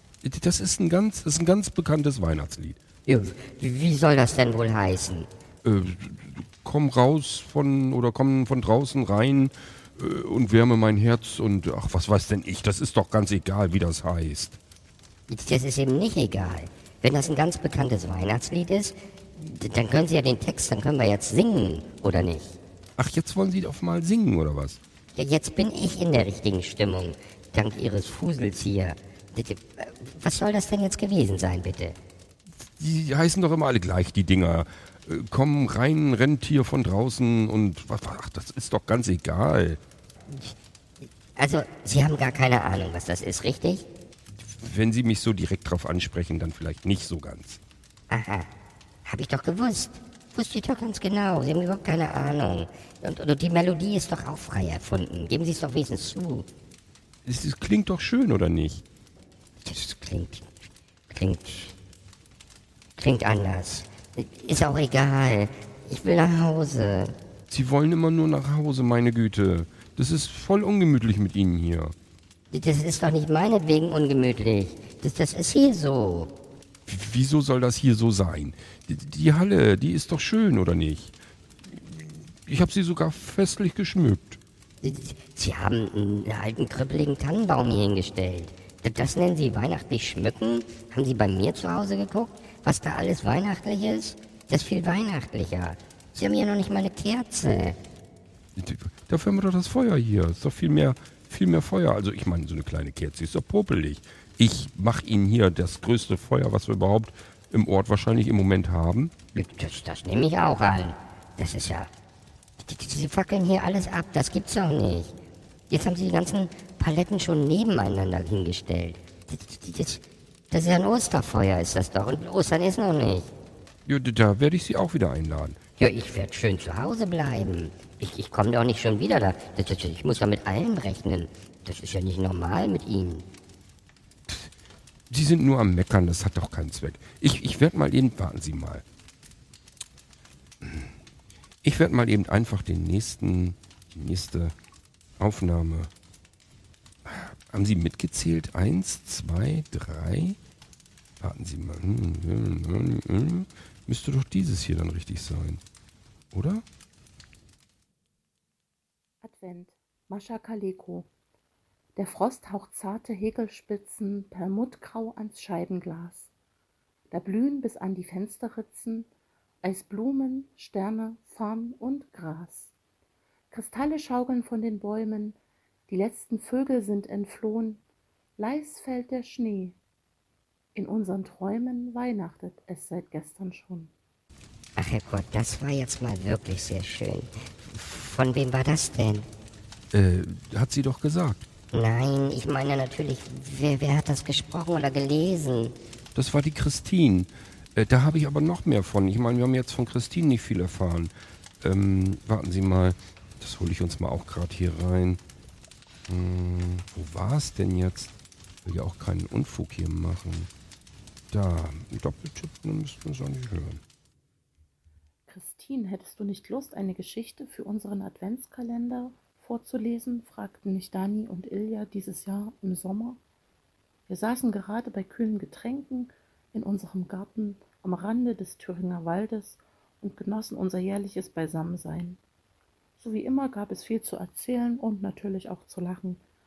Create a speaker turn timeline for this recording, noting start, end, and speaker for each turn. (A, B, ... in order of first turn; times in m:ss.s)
0:00.2-0:02.8 A
0:03.0-0:05.3 B
0:05.6-0:14.6 A
0:15.3-0:22.6 B
0:23.0-0:24.8 A
0:25.1-0:32.0 B
0:32.6-0:39.8 A
0:40.3-0:40.5 B
0:41.4-0:43.8 B
0:44.3-0:47.6 A
0:48.1-0:48.5 B
0:49.0-0:56.4 B
0:57.2-0:58.8 A
0:59.6-1:01.7 B
1:03.0-1:07.1 B
1:07.5-1:11.9 A
1:12.5-1:16.3 B
1:16.9-1:24.4 A
1:24.8-1:37.8 B
1:38.6-1:49.1 A
1:49.3-1:51.9 B
1:52.6-1:55.1 B
1:55.7-2:03.3 B
2:03.8-2:05.6 A
2:05.8-2:13.2 B
2:15.1-2:18.8 A
2:20.6-2:20.9 A
2:21.6-2:24.5 A
2:25.2-2:25.9 A
2:27.0-2:30.4 A
2:31.2-2:35.6 A
2:36.3-2:36.6 A
2:39.2-2:41.1 C
2:42.0-2:46.3 C
2:47.1-2:49.1 C
2:49.6-2:52.7 C
2:53.5-2:57.8 C
2:58.4-2:59.8 C
3:00.7-3:03.9 C
3:04.8-3:09.3 B
3:09.9-3:11.4 A
3:11.7-3:15.7 B
3:16.1-3:25.2 A
3:26.1-3:28.1 A
3:28.6-3:30.5 A
3:31.3-3:33.8 A
3:35.3-3:43.2 C
3:44.1-3:52.2 C
3:53.0-3:56.2 C